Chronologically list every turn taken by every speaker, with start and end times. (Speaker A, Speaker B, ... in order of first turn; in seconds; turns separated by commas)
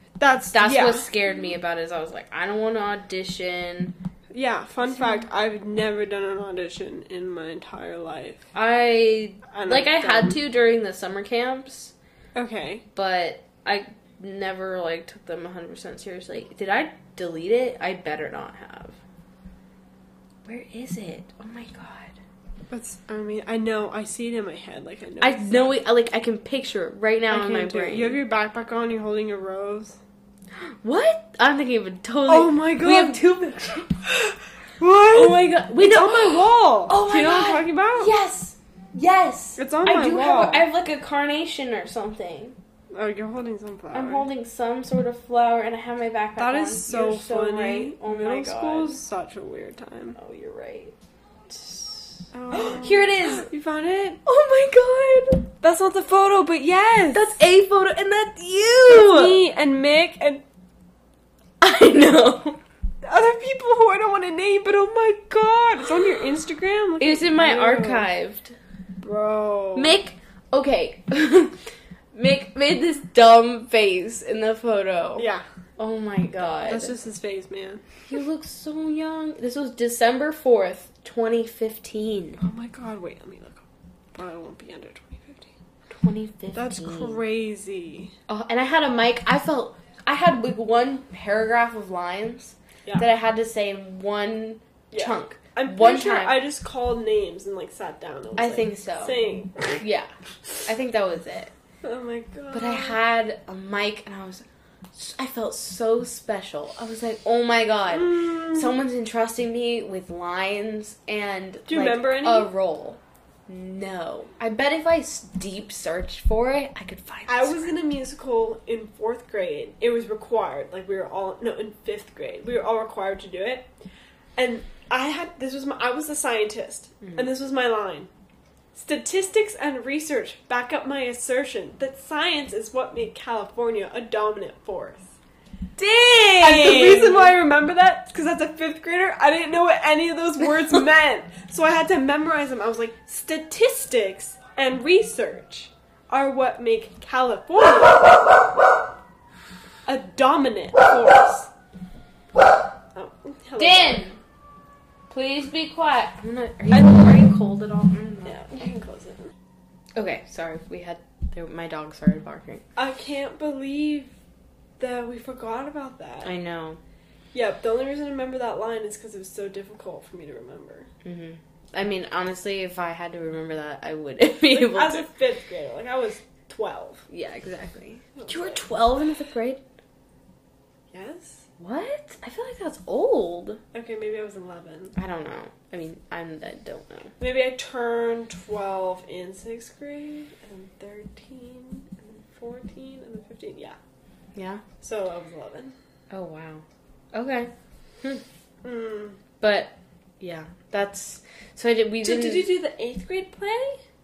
Speaker A: 0.2-1.1, Speaker B: 0.5-3.9, Speaker A: 4.3-8.5, Speaker B: 4.9-5.2, Speaker B: 8.5-11.9, Speaker A: 9.5-10.4, Speaker A: 12.3-12.8, Speaker B: 12.9-19.0, Speaker B: 20.5-22.2, Speaker A: 22.7-25.8, Speaker B: 25.2-28.2, Speaker A: 27.3-30.0, Speaker B: 30.6-34.0, Speaker A: 32.3-33.2, Speaker A: 34.0-38.1, Speaker B: 35.1-42.6, Speaker A: 39.6-40.7, Speaker A: 42.9-44.3, Speaker B: 43.9-49.0, Speaker A: 46.4-50.2, Speaker B: 50.2-50.9, Speaker B: 51.5-53.5, Speaker A: 52.3-54.2, Speaker B: 54.2-55.5, Speaker A: 55.6-57.4, Speaker B: 57.1-59.4, Speaker A: 58.9-60.4, Speaker B: 61.6-62.6, Speaker A: 63.0-68.1, Speaker B: 67.0-68.6, Speaker A: 69.0-70.0, Speaker B: 69.8-71.6, Speaker B: 72.1-77.0, Speaker A: 75.2-75.5, Speaker A: 76.6-77.9, Speaker B: 78.1-82.4, Speaker A: 82.4-85.5, Speaker B: 85.9-87.2, Speaker A: 86.5-88.1, Speaker B: 88.3-96.4, Speaker A: 94.9-99.8, Speaker B: 98.4-99.2, Speaker B: 99.8-100.1, Speaker B: 100.7-101.5, Speaker A: 101.8-103.0, Speaker B: 102.5-117.7, Speaker A: 107.9-108.8, Speaker A: 111.7-112.5, Speaker A: 117.3-123.7, Speaker A: 124.4-128.1, Speaker B: 127.0-127.3, Speaker A: 128.7-135.1, Speaker A: 135.8-148.5, Speaker B: 135.9-137.4, Speaker A: 149.8-151.5, Speaker A: 152.9-154.1, Speaker B: 153.6-154.2, Speaker B: 155.1-158.5, Speaker A: 156.7-157.2, Speaker A: 158.2-159.3, Speaker B: 160.0-162.6, Speaker A: 162.8-164.1, Speaker A: 164.8-166.3, Speaker B: 166.2-166.8, Speaker A: 167.3-170.9, Speaker B: 171.0-175.1, Speaker A: 174.5-177.1, Speaker B: 177.1-179.6, Speaker A: 178.2-178.7, Speaker A: 180.9-181.4, Speaker B: 181.6-183.6, Speaker A: 183.7-184.9, Speaker B: 185.0-187.2, Speaker A: 187.2-193.8, Speaker B: 194.3-194.6, Speaker A: 194.8-195.8, Speaker B: 196.1-198.2, Speaker A: 198.6-199.2, Speaker B: 199.4-202.5, Speaker A: 202.0-203.8